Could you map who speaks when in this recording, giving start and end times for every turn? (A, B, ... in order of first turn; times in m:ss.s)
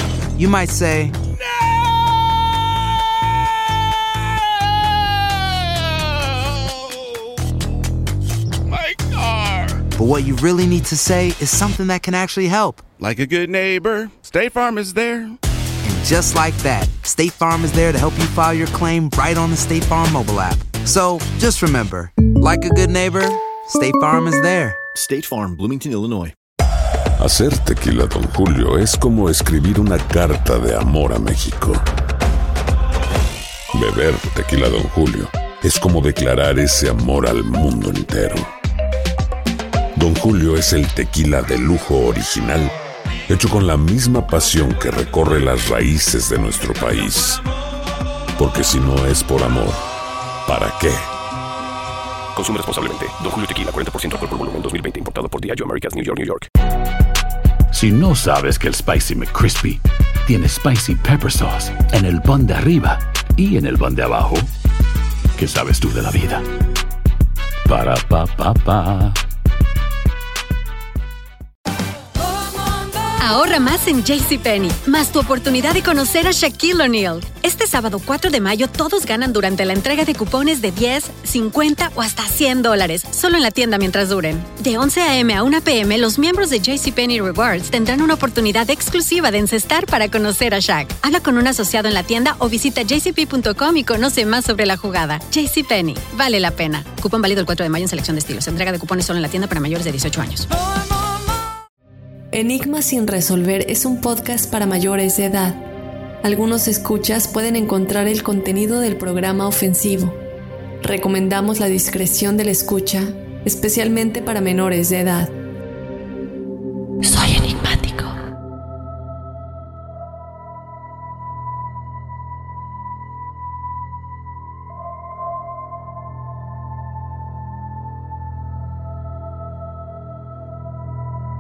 0:00.4-0:01.2 A
0:08.9-0:09.5 B
0:09.9-0:12.8 A
0:13.0-0:15.3 B
0:13.8-0:15.3 C
0:15.8-0:24.8 A
0:25.0-0:26.4 C
0:27.2-0:31.8 D
0:33.8-0:38.5 D
0:40.0-0:42.7 D
0:43.3-0:47.4 D
0:48.4-0:49.8 D
0:50.5-0:51.0 D
0:52.4-0:56.5 E
0:57.7-1:04.5 F
1:05.4-1:06.4 F
1:07.7-1:09.2 F
1:13.1-1:40.5 G
1:42.3-1:45.7 H
1:46.2-1:50.2 H
1:50.8-1:55.4 H
1:57.0-1:58.1 A